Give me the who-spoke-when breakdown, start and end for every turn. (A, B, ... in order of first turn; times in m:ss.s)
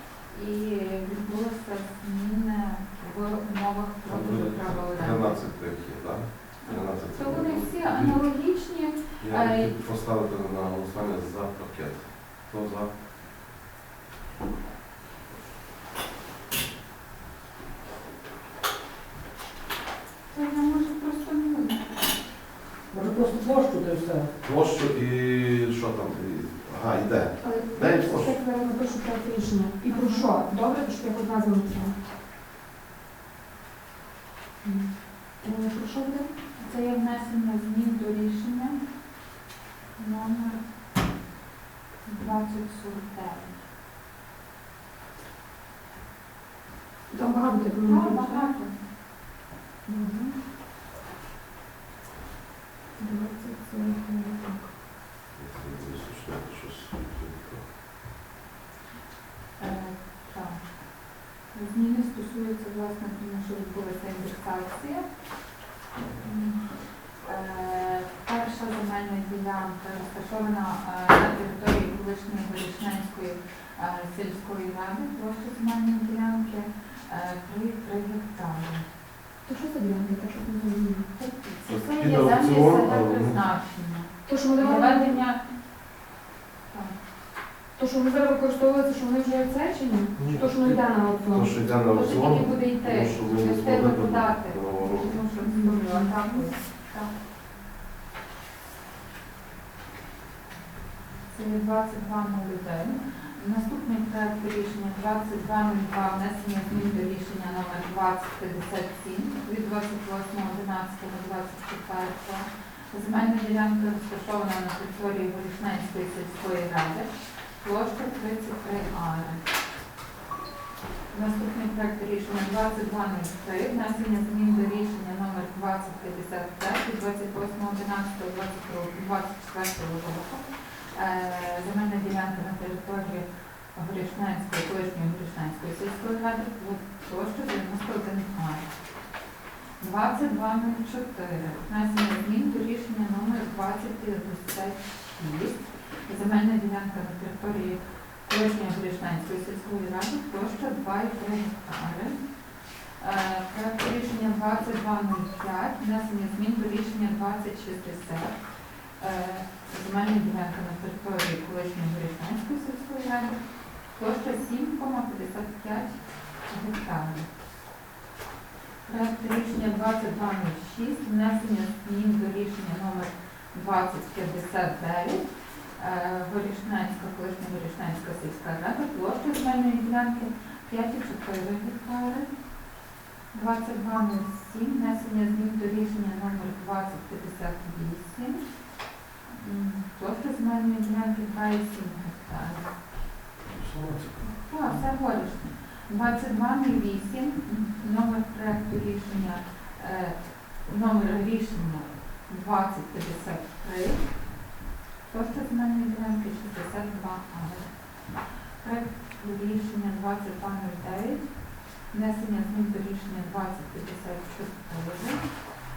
0:00.3-0:05.4 A
0:04.1-0:08.2 B
0:06.6-0:09.7 A
0:09.2-0:12.9 B
0:20.3-0:22.0 A
0:22.9-0:24.3 C
0:24.4-0:28.4 B
0:27.4-0:32.0 D
0:29.9-0:30.3 A
0:34.6-0:36.3 D
0:36.6-0:38.8 A
0:40.0-0:40.6 A
0:42.1-0:43.6 A
0:47.1-0:48.5 D
0:47.8-0:48.8 A
0:49.9-0:50.4 D
0:53.0-0:54.7 D
0:55.4-0:57.6 B
0:59.6-1:00.8 A
1:01.5-1:05.0 A
1:06.2-1:06.6 A
1:07.2-1:18.8 A
1:19.5-1:21.1 D
1:21.2-1:25.4 A
1:21.7-1:23.4 B
1:24.3-1:25.2 D
1:27.8-1:31.5 D
1:30.2-1:30.8 C
1:31.3-1:35.2 B
1:31.9-1:37.1 A
1:35.4-1:36.5 D
1:41.3-1:57.1 A
1:57.6-1:59.4 A
2:01.1-2:18.7 A
2:19.8-2:32.2 A
2:33.0-2:38.4 A
2:39.0-2:43.4 A
2:43.9-2:47.3 A
2:48.8-2:55.2 A
2:55.8-3:02.3 A
3:03.3-3:08.4 A
3:09.3-3:12.7 A
3:13.4-3:14.3 B
3:14.4-3:24.2 A
3:25.1-3:35.4 A